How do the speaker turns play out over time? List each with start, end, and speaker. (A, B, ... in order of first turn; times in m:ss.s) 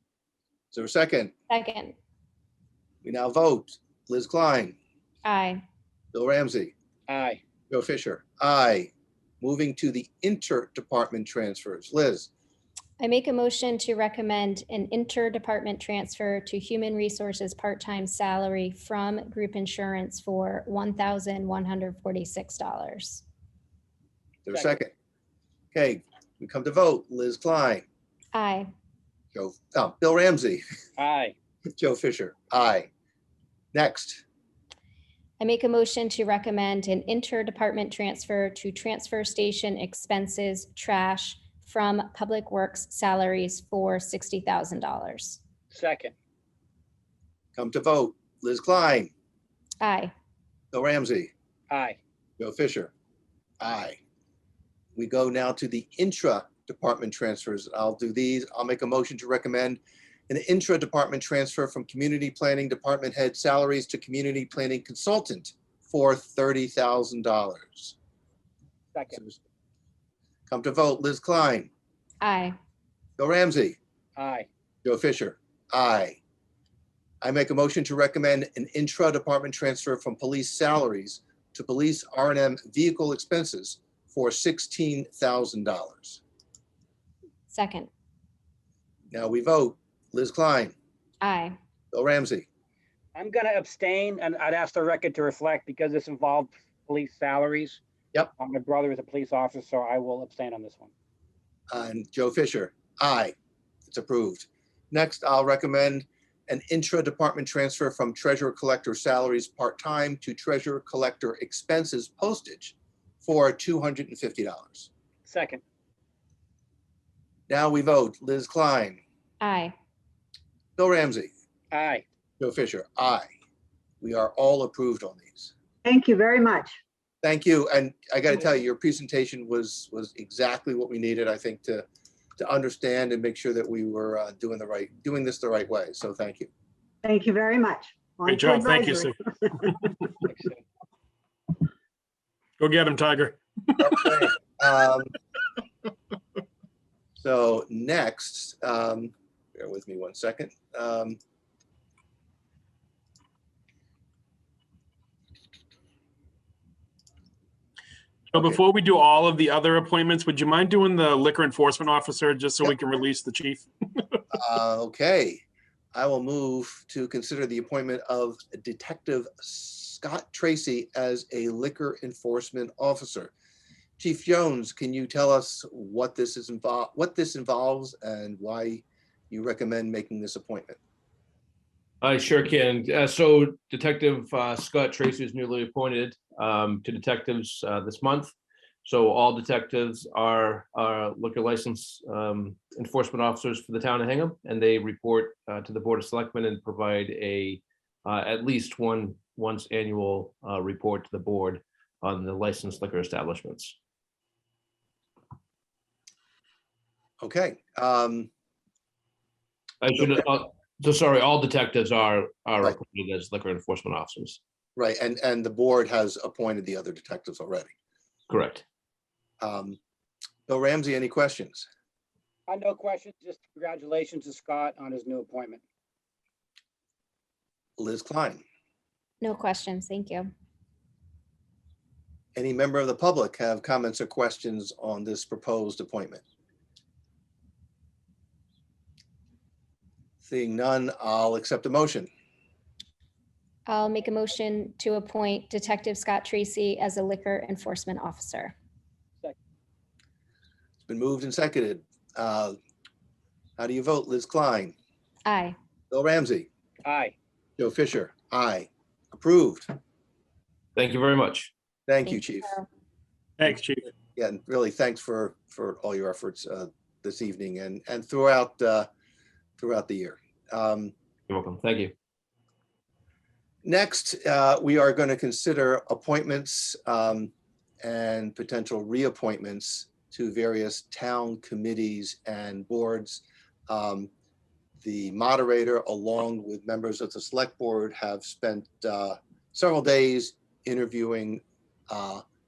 0:00.7-0:01.3 A
0:01.5-0:02.0 B
0:03.0-0:04.8 A
0:05.2-0:05.6 B
0:06.1-0:06.7 A
0:07.1-0:07.4 C
0:07.7-0:12.3 A
0:13.0-0:23.2 B
0:24.4-0:24.9 A
0:24.5-0:24.8 C
0:25.7-0:27.8 A
0:28.3-0:28.7 B
0:29.3-0:30.6 A
0:31.0-0:31.3 C
0:31.8-0:32.9 A
0:33.7-0:34.2 A
0:35.4-0:45.4 B
0:45.7-0:46.1 C
0:47.6-0:49.1 A
0:49.8-0:50.1 B
0:50.7-0:51.3 A
0:51.7-0:52.0 C
0:52.4-0:52.9 A
0:53.6-0:54.0 A
0:55.0-1:08.0 A
1:08.9-1:09.2 C
1:09.1-1:09.4 A
1:10.5-1:11.7 A
1:12.2-1:12.6 B
1:13.2-1:13.8 A
1:14.2-1:14.5 C
1:14.8-1:16.2 A
1:17.2-1:26.2 A
1:27.5-1:27.9 B
1:29.1-1:30.7 A
1:31.2-1:31.6 B
1:31.9-1:32.4 A
1:33.1-1:37.8 C
1:38.4-1:40.9 C
1:41.7-1:43.3 A
1:43.9-1:54.9 A
1:55.2-1:55.6 C
1:57.5-1:59.0 A
1:59.4-1:59.8 B
2:00.8-2:01.3 A
2:01.7-2:02.0 C
2:02.4-2:03.3 A
2:04.0-2:05.5 A
2:05.8-2:06.8 D
2:07.2-2:11.8 A
2:12.4-2:16.5 A
2:17.0-2:19.1 D
2:18.2-2:19.9 E
2:20.3-2:20.6 C
2:22.6-2:24.0 E
2:23.8-2:25.1 A
2:27.2-2:31.2 A
2:38.3-2:44.2 E
2:44.3-2:45.4 A
2:45.9-2:53.3 A
2:54.0-3:00.8 A
3:02.0-3:08.3 F
3:08.8-3:23.7 F
3:27.2-3:28.3 A
3:29.8-3:34.4 F
3:30.0-3:30.2 A
3:34.8-3:37.7 A
3:38.3-3:38.6 F
3:39.4-3:39.8 A
3:40.5-3:41.7 A
3:42.5-3:45.6 C
3:47.8-3:48.4 A
3:49.2-3:50.3 B
3:52.4-3:56.2 A
4:00.2-4:02.1 A
4:03.6-4:08.5 B
4:10.8-4:12.6 A
4:13.6-4:14.7 A
4:15.2-4:15.6 B
4:15.9-4:16.5 A
4:16.8-4:17.1 C
4:17.6-4:19.7 A
4:20.8-4:21.5 F
4:21.9-4:22.6 A
4:23.4-4:23.9 E
4:24.1-4:28.9 A
4:29.6-4:30.9 A
4:31.3-4:31.9 F
4:33.6-4:44.1 A
4:44.8-4:52.2 A